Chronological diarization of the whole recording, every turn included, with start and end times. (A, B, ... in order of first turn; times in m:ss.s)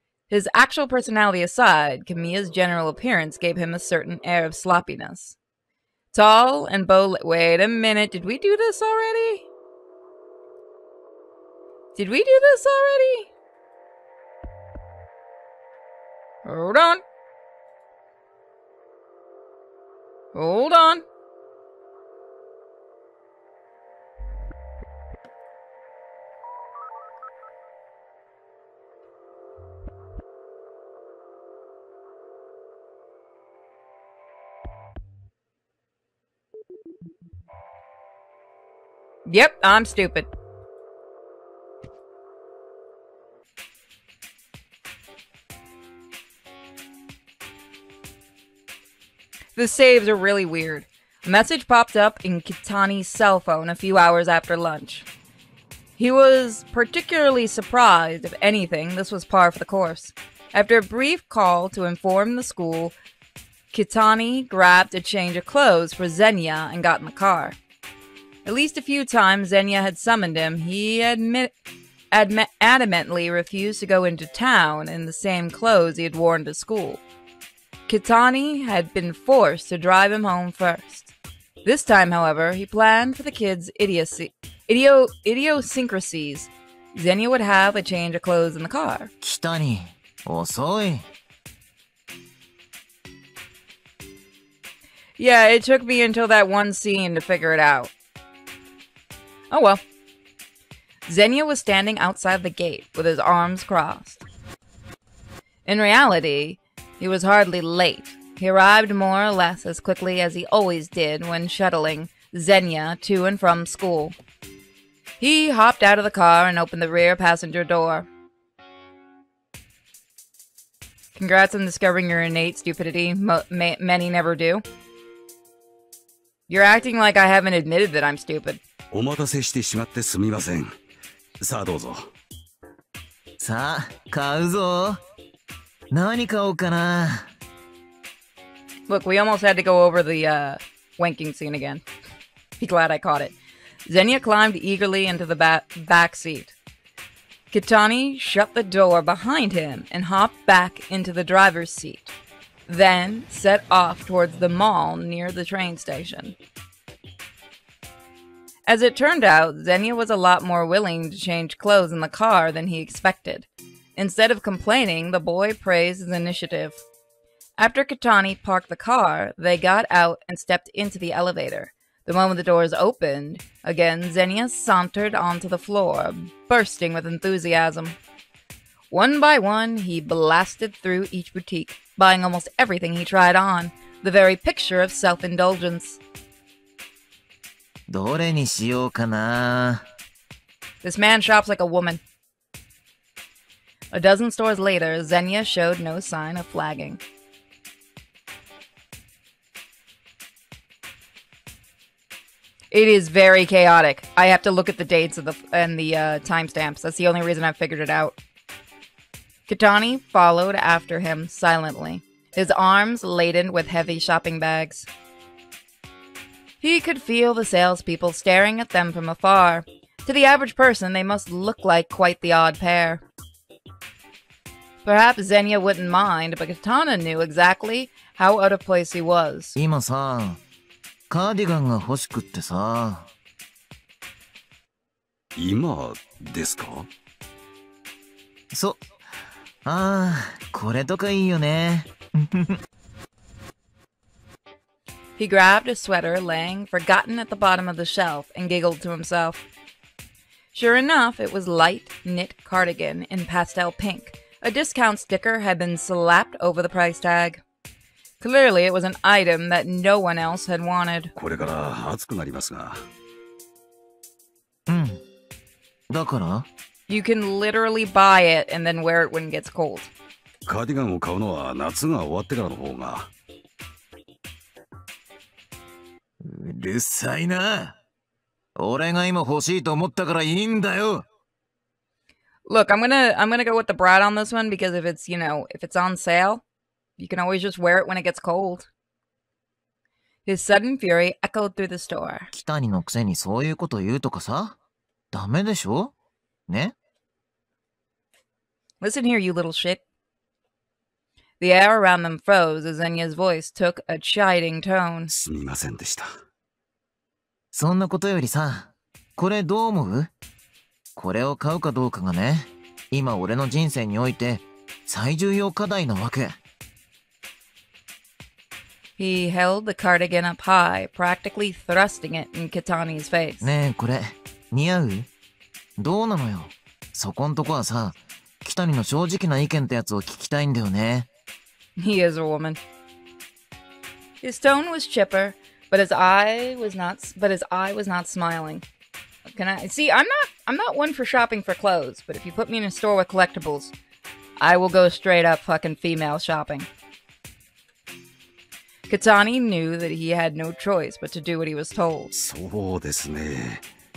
0:00.3-0:05.4 A
0:06.1-0:09.4 A
0:11.9-0:13.3 A
0:16.4-0:17.0 A
0:20.3-0:21.0 A
0:39.3-0:40.3 A
0:49.6-0:55.1 A
0:56.0-1:03.0 A
1:03.7-1:07.6 A
1:08.4-1:11.5 A
1:12.1-1:17.0 A
1:17.9-1:21.1 A
1:21.6-1:29.1 A
1:29.2-1:31.1 B
1:35.2-1:37.9 A
1:39.5-1:39.8 A
1:41.1-1:44.2 A
1:45.6-1:54.2 A
1:55.2-1:58.1 A
2:01.2-2:04.6 A
2:06.5-2:08.6 A
2:08.9-2:10.7 C
2:11.4-2:12.1 C
2:13.4-2:15.0 B
2:15.9-2:17.3 B
2:18.9-2:21.8 A
2:22.6-2:23.3 A
2:23.9-2:26.5 A
2:27.5-2:32.1 A
2:32.7-2:36.4 A
2:38.7-2:46.8 A
2:47.6-2:58.0 A
2:58.9-3:06.0 A
3:07.9-3:09.8 B
3:10.8-3:12.0 A
3:13.9-3:17.0 A
3:22.7-3:28.2 A
3:29.5-3:34.9 A
3:36.6-3:43.0 A
3:44.8-3:49.6 A
3:49.6-3:50.4 B
3:51.1-3:53.1 B
3:55.4-3:56.9 C
3:58.5-3:58.8 B
3:59.6-4:02.6 B
4:05.2-4:09.4 A
4:10.5-4:17.4 A
4:18.2-4:21.1 A
4:21.2-4:22.8 C
4:24.7-4:25.0 B
4:25.9-4:26.5 B
4:26.9-4:29.9 A
4:30.4-4:33.1 C
4:36.2-4:37.8 B
4:38.6-4:41.0 B
4:42.4-4:46.4 A
4:47.0-4:48.7 A
4:50.2-4:52.3 A
4:52.3-4:54.6 B
4:55.1-4:55.9 B
4:56.5-4:56.7 B
4:58.8-4:59.8 A
5:01.4-5:05.1 A
5:05.1-5:06.1 C
5:07.5-5:10.1 B
5:11.0-5:16.4 B
5:19.0-5:23.4 A
5:23.4-5:25.1 B
5:25.8-5:31.1 B
5:31.8-5:32.6 A
5:34.2-5:38.6 A
5:39.3-5:43.7 A
5:44.4-5:46.7 A
5:48.9-5:52.1 A
5:52.1-5:53.6 C